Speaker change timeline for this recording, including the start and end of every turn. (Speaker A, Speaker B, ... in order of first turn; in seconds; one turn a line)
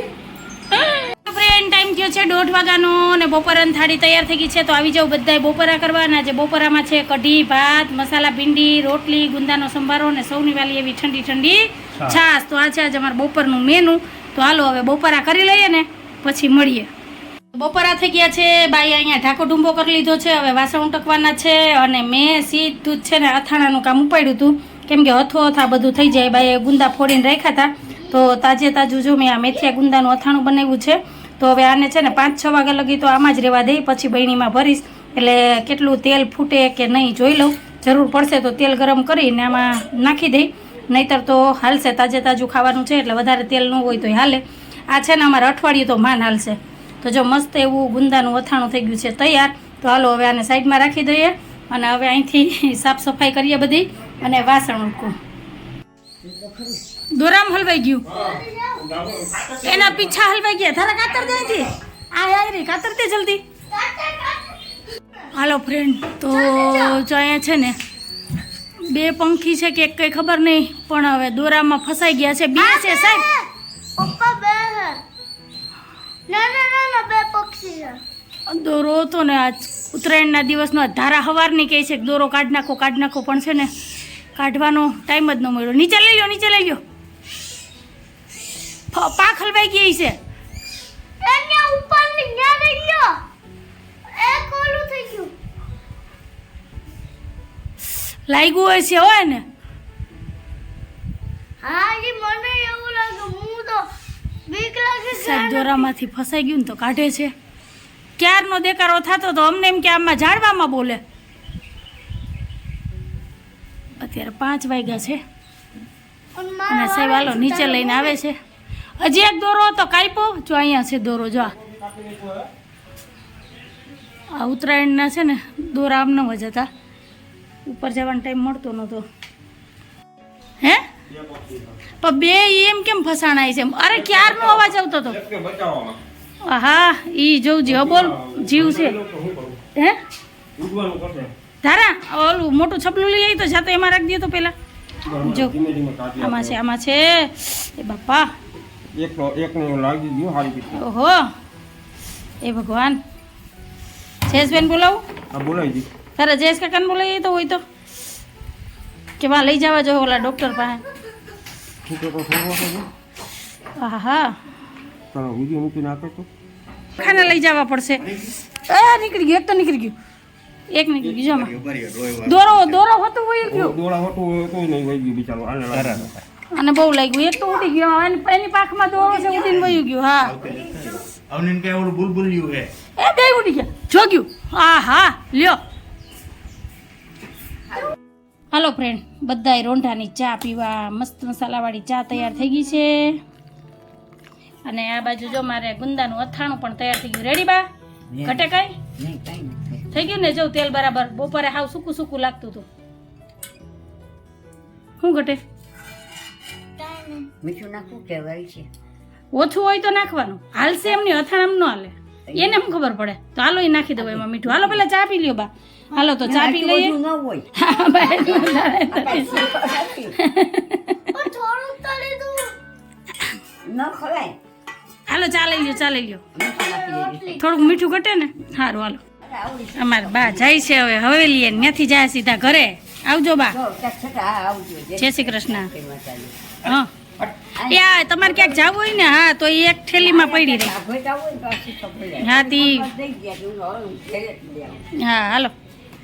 Speaker A: 0.7-16.9
Speaker A: 17.5-55.2
Speaker B: 56.2-56.8
Speaker A: 57.1-58.1
Speaker C: 58.1-60.0
Speaker D: 58.1-58.8
Speaker A: 59.6-63.4
Speaker D: 63.7-64.6
Speaker A: 65.3-67.8
Speaker D: 66.3-67.0
Speaker A: 68.9-73.3
Speaker D: 72.6-75.0
Speaker D: 76.3-78.0
Speaker A: 78.5-83.7
Speaker A: 84.4-86.8
Speaker A: 88.9-90.2
Speaker D: 91.2-93.2
Speaker D: 94.2-95.3
Speaker A: 98.3-99.4
Speaker D: 101.6-103.8
Speaker D: 104.5-105.9
Speaker A: 105.1-107.3
Speaker A: 108.2-111.0
Speaker A: 114.0-115.2
Speaker D: 116.3-118.2
Speaker A: 116.7-118.4
Speaker A: 119.0-121.5
Speaker C: 121.6-122.5
Speaker A: 124.3-126.7
Speaker A: 127.7-129.1
Speaker A: 130.6-130.8
Speaker C: 131.1-131.8
Speaker A: 132.0-135.2
Speaker C: 133.9-136.0
Speaker A: 136.4-139.0
Speaker C: 137.7-139.6
Speaker C: 140.6-141.3
Speaker A: 141.6-144.5
Speaker C: 145.1-146.6
Speaker A: 145.2-145.6
Speaker A: 146.2-148.3
Speaker C: 148.9-150.8
Speaker A: 150.7-151.3
Speaker A: 152.4-153.0
Speaker A: 154.3-155.0
Speaker C: 155.3-155.9
Speaker A: 156.2-157.6
Speaker A: 159.2-160.8
Speaker C: 161.8-162.9
Speaker A: 163.8-164.4
Speaker C: 165.1-166.3
Speaker A: 167.0-168.1
Speaker C: 167.0-167.3
Speaker E: 168.0-168.3
Speaker A: 168.7-169.9
Speaker A: 170.7-171.5
Speaker C: 171.1-171.3
Speaker E: 171.3-172.8
Speaker A: 172.2-173.8
Speaker C: 173.5-176.1
Speaker E: 175.7-176.2
Speaker A: 176.5-180.3
Speaker B: 179.1-179.6
Speaker E: 179.5-182.7
Speaker B: 180.4-181.1
Speaker A: 183.0-185.6
Speaker A: 188.5-193.2
Speaker A: 194.7-197.7
Speaker B: 198.1-200.0
Speaker A: 198.2-198.8
Speaker A: 199.9-202.7
Speaker A: 205.0-205.4
Speaker D: 206.8-207.3
Speaker B: 207.4-208.7
Speaker A: 209.3-216.9
Speaker B: 212.3-212.7
Speaker B: 214.0-214.8
Speaker B: 216.2-220.2
Speaker A: 217.6-219.5
Speaker A: 220.2-221.0
Speaker D: 221.1-222.5
Speaker B: 223.7-224.4
Speaker A: 225.1-226.2
Speaker B: 226.3-227.4
Speaker D: 226.6-227.8
Speaker A: 227.4-229.0
Speaker B: 229.2-230.6
Speaker A: 229.8-233.6
Speaker B: 233.5-236.4
Speaker A: 235.0-235.7
Speaker A: 236.7-236.9
Speaker B: 237.6-238.7
Speaker A: 237.6-240.8
Speaker B: 239.9-244.8
Speaker A: 242.2-242.9
Speaker A: 245.0-245.5